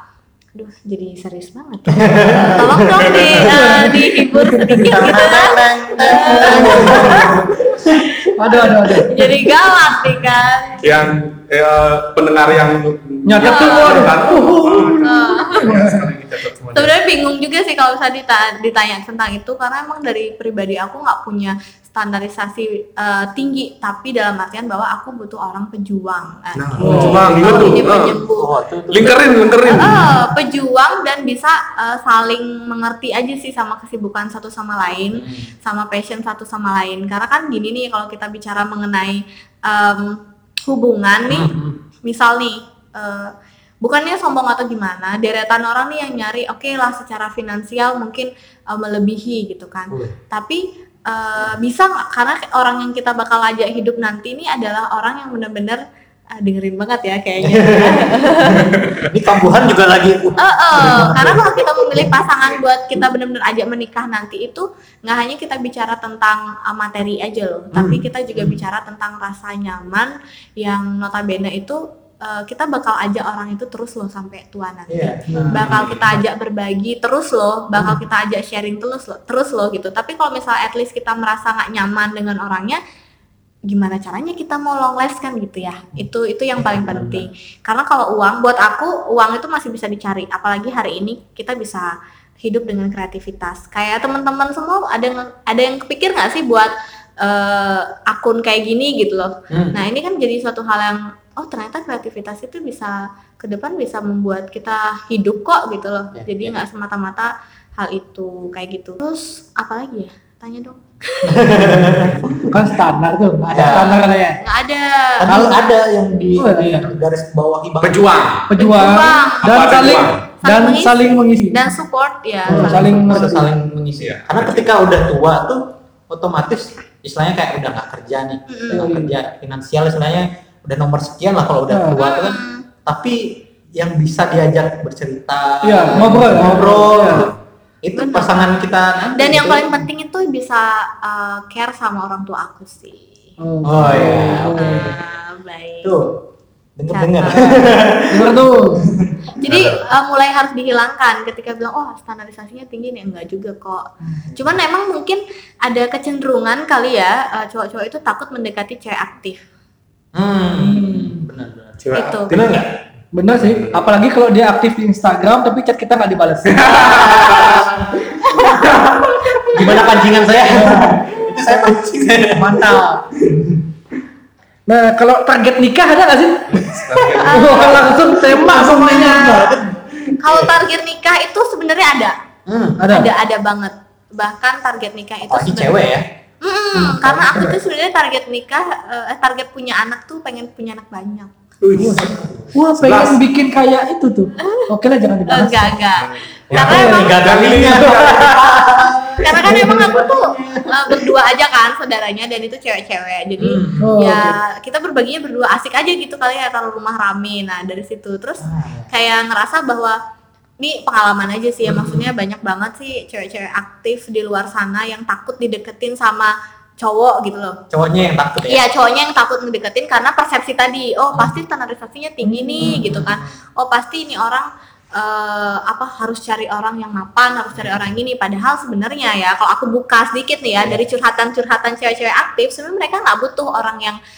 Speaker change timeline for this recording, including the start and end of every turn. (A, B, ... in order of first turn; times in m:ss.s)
0:00.6-0:07.5 A
0:01.9-0:03.8 B
0:03.4-0:04.9 C
0:04.6-0:08.2 B
0:06.0-0:07.3 C
0:08.2-0:10.9 A
0:08.4-0:09.3 C
0:10.8-0:16.9 D
0:13.2-0:16.0 C
0:13.4-0:14.1 A
0:15.0-0:15.7 A
0:16.8-0:28.5 A
0:26.6-0:28.2 D
0:26.8-0:30.2 B
0:26.8-0:27.3 C
0:28.9-0:30.3 D
0:29.1-0:55.8 A
0:35.1-0:35.5 B
0:41.3-0:41.8 B
0:56.4-0:59.0 A
0:57.4-1:02.2 B
1:00.4-1:22.8 A
1:07.7-1:08.6 B
1:14.9-1:16.2 B
1:15.3-1:15.7 C
1:15.7-1:16.0 D
1:17.8-1:18.0 B
1:23.7-1:51.6 A
1:26.6-1:27.3 B
1:39.5-1:39.8 B
1:46.2-1:46.6 B
1:51.2-1:52.6 B
1:52.4-1:54.4 C
1:53.5-1:54.0 B
1:53.6-1:55.4 A
1:55.2-1:58.2 B
1:55.3-1:55.5 C
1:56.4-1:56.9 C
1:57.8-1:58.5 D
1:58.5-2:01.6 C
1:58.6-1:59.8 A
1:59.4-2:00.2 D
2:00.4-2:03.3 A
2:02.5-2:03.5 C
2:02.5-2:19.7 B
2:04.0-2:04.7 D
2:08.5-2:08.9 A
2:08.7-2:09.1 C
2:11.7-2:12.0 C
2:12.0-2:12.6 A
2:15.6-2:17.3 C
2:18.0-2:18.6 A
2:19.2-2:23.1 A
2:23.4-2:24.9 C
2:23.6-2:24.9 B
2:23.8-2:24.1 D
2:24.5-2:25.9 A
2:25.8-2:26.2 B
2:26.8-2:29.4 B
2:26.9-2:28.0 A
2:28.1-2:28.9 C
2:29.4-2:39.4 A
2:34.3-2:34.6 B
2:40.1-2:42.8 B
2:40.6-2:41.2 C
2:41.8-2:42.5 D
2:41.9-2:42.4 A
2:43.1-2:46.8 C
2:43.4-2:43.9 D
2:46.6-2:47.6 D
2:46.6-2:53.4 B
2:46.8-2:50.0 A
2:50.5-2:51.8 C
2:52.3-2:53.0 C
2:54.7-2:56.7 C
2:56.5-2:58.0 D
2:56.9-3:00.5 B
2:57.2-2:59.5 A
2:57.3-2:59.4 C
3:00.2-3:02.2 A
3:02.5-3:02.8 B
3:02.8-3:03.1 C
3:02.9-3:05.9 A
3:05.2-3:06.1 B
3:06.4-3:11.3 A
3:06.8-3:07.6 B
3:11.6-3:12.2 D
3:11.8-3:15.8 C
3:11.8-3:12.5 B
3:12.8-3:13.2 D
3:14.4-3:14.7 A
3:15.3-3:17.2 A
3:16.0-3:18.6 D
3:16.5-3:21.0 B
3:16.6-3:18.1 C
3:19.2-3:30.0 A
3:23.4-3:24.0 B
3:23.8-3:24.4 C
3:28.4-3:28.9 B
3:30.6-3:37.6 A
3:31.6-3:32.1 B
3:37.7-3:38.7 B
3:38.4-3:54.0 A
3:42.2-3:42.8 C
3:42.6-3:43.3 B